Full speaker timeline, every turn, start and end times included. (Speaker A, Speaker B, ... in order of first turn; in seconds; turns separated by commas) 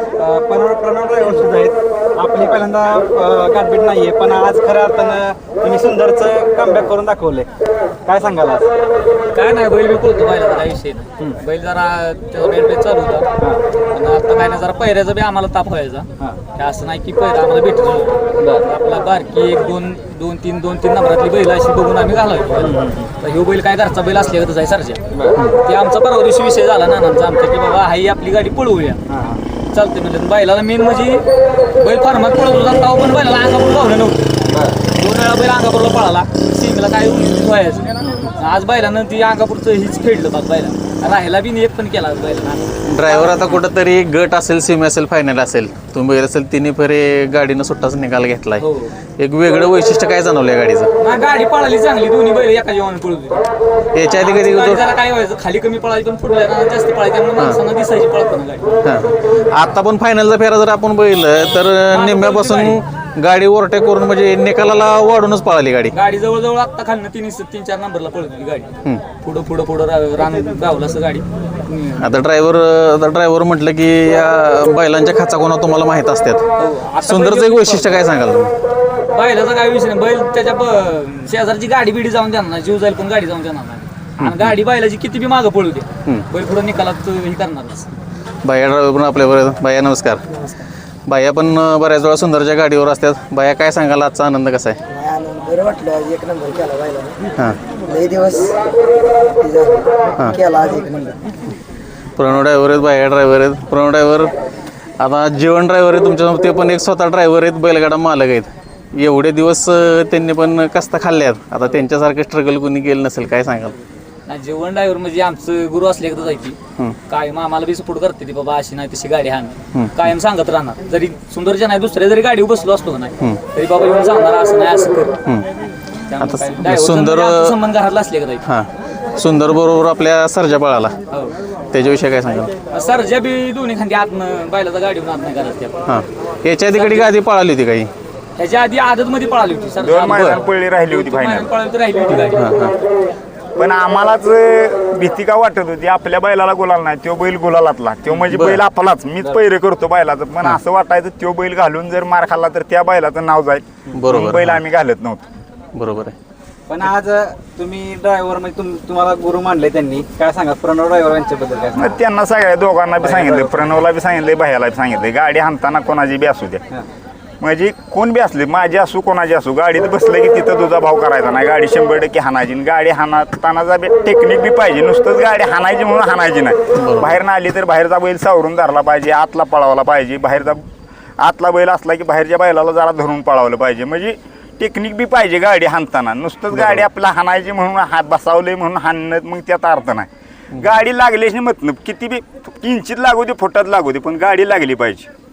Speaker A: 0.2-7.5, Speaker A: 8.1-8.7, Speaker B: 9.3-13.3, Speaker B: 13.9-29.0, Speaker A: 29.1-29.4, Speaker B: 29.7-34.4, Speaker A: 34.5-34.7, Speaker B: 34.9-43.6, Speaker A: 38.0-38.3, Speaker C: 42.9-48.6, Speaker B: 48.6-49.0, Speaker C: 49.2-50.9, Speaker B: 51.0-53.5, Speaker C: 53.9-54.9, Speaker B: 54.0-58.9, Speaker C: 58.8-65.9, Speaker B: 61.9-62.8, Speaker B: 65.9-68.7, Speaker B: 69.2-72.1, Speaker C: 72.0-76.4, Speaker B: 76.6-78.0, Speaker C: 77.0-78.5, Speaker B: 79.1-87.9, Speaker C: 84.2-84.5, Speaker C: 88.4-90.4, Speaker C: 91.1-94.8, Speaker D: 94.9-97.2, Speaker D: 97.8-98.6, Speaker D: 99.4-101.2, Speaker C: 100.2-100.4, Speaker C: 102.2-104.3, Speaker C: 105.0-113.8, Speaker B: 114.3-125.2, Speaker B: 126.1-128.4, Speaker C: 126.2-127.5, Speaker C: 128.4-130.9, Speaker C: 131.7-132.5, Speaker B: 132.7-135.8, Speaker C: 135.9-137.9, Speaker B: 136.7-137.1, Speaker B: 138.4-142.6, Speaker E: 139.8-141.5, Speaker C: 142.1-142.7, Speaker E: 143.6-155.2, Speaker C: 148.2-148.6, Speaker C: 153.9-154.6, Speaker C: 155.7-156.1, Speaker A: 156.7-161.9, Speaker E: 161.8-166.6, Speaker A: 163.0-163.5, Speaker E: 167.4-180.6, Speaker C: 176.8-177.2, Speaker E: 181.2-190.1, Speaker C: 186.5-186.9, Speaker C: 190.5-190.8, Speaker E: 190.6-195.1